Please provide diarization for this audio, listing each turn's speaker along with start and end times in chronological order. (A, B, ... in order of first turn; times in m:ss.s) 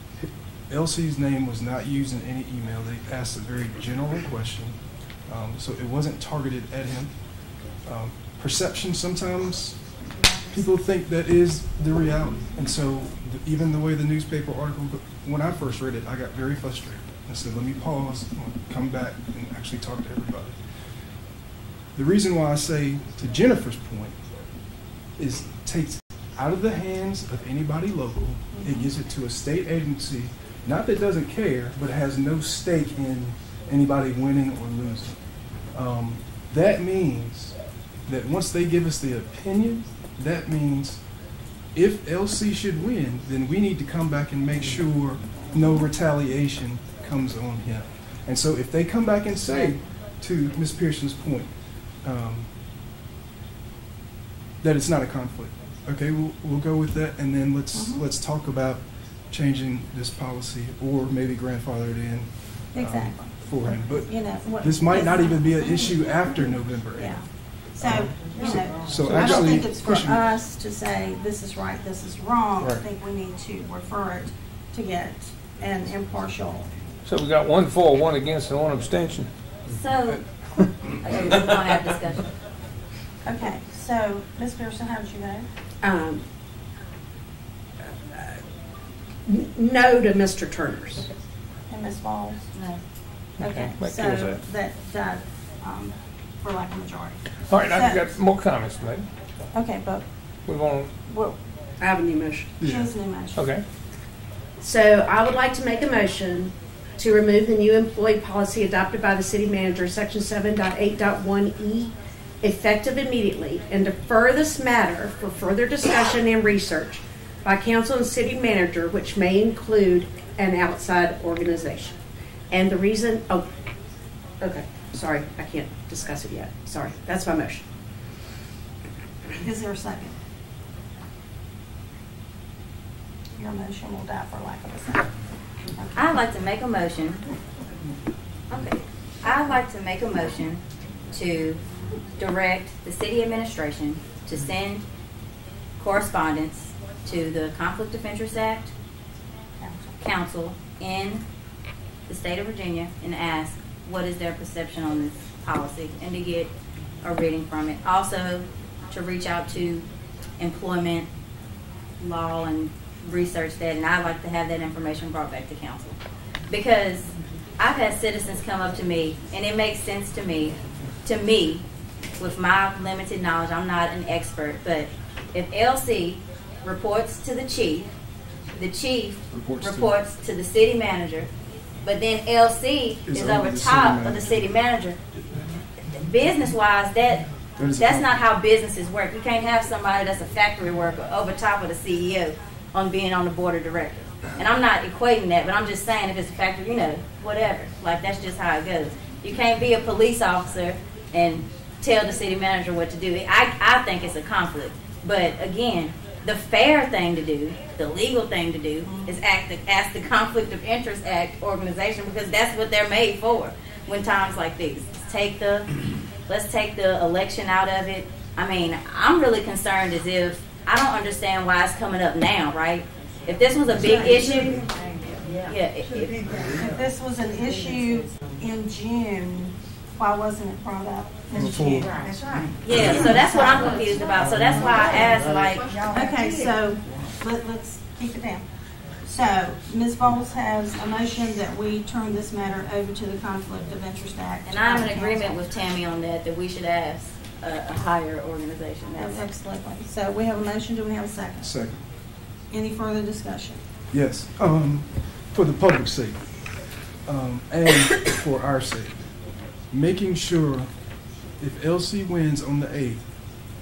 0:00.2-0:20.6 A
0:21.9-0:24.2 A
0:25.2-0:41.0 A
0:41.7-0:52.5 A
0:54.6-1:07.2 A
0:57.7-0:58.0 B
1:02.7-1:05.9 B
1:07.0-1:07.3 B
1:07.8-1:10.3 A
1:07.8-1:16.7 B
1:12.6-1:12.8 A
1:17.0-1:19.3 C
1:19.7-1:20.2 D
1:21.0-1:22.2 D
1:23.2-1:25.5 B
1:25.8-1:26.2 E
1:28.1-1:28.4 E
1:29.2-1:31.1 E
1:31.7-1:32.6 B
1:32.5-1:32.8 D
1:33.4-1:34.4 C
1:33.4-1:38.1 B
1:37.5-1:39.0 C
1:39.5-1:40.0 B
1:40.5-1:40.9 C
1:41.1-1:41.4 B
1:41.8-1:42.5 E
1:42.6-1:42.9 A
1:42.6-1:43.6 B
1:43.4-1:43.6 C
1:44.6-2:02.0 E
2:02.5-2:03.4 E
2:04.4-2:07.6 E
2:09.4-2:10.2 B
2:13.4-2:15.1 B
2:15.9-2:17.2 D
2:18.5-2:21.6 D
2:22.2-2:24.8 D
2:25.8-2:28.7 D
2:29.6-2:29.9 B
2:30.0-2:31.2 D
2:32.1-2:36.5 D
2:37.0-2:39.8 D
2:40.4-2:41.1 D
2:42.0-2:46.0 D
2:46.5-2:51.6 D
2:52.2-2:57.9 D
2:58.6-3:01.3 D
2:59.3-2:59.9 A
3:01.8-3:05.0 D
3:03.1-3:04.4 A
3:05.9-3:07.2 D
3:07.6-3:08.2 A
3:07.8-3:35.7 D
3:28.8-3:29.2 B
3:36.3-3:44.6 D
3:43.8-3:44.2 B
3:45.5-3:46.2 D
3:46.5-3:53.6 B
3:51.3-3:51.9 A
3:52.6-3:55.7 D
3:55.9-3:58.4 B
3:59.1-4:05.3 B
4:04.4-4:09.2 D
4:08.9-4:11.6 B
4:11.4-4:11.8 A
4:12.5-4:13.6 B
4:13.9-4:19.1 A
4:19.7-4:20.7 A
4:21.4-4:23.1 A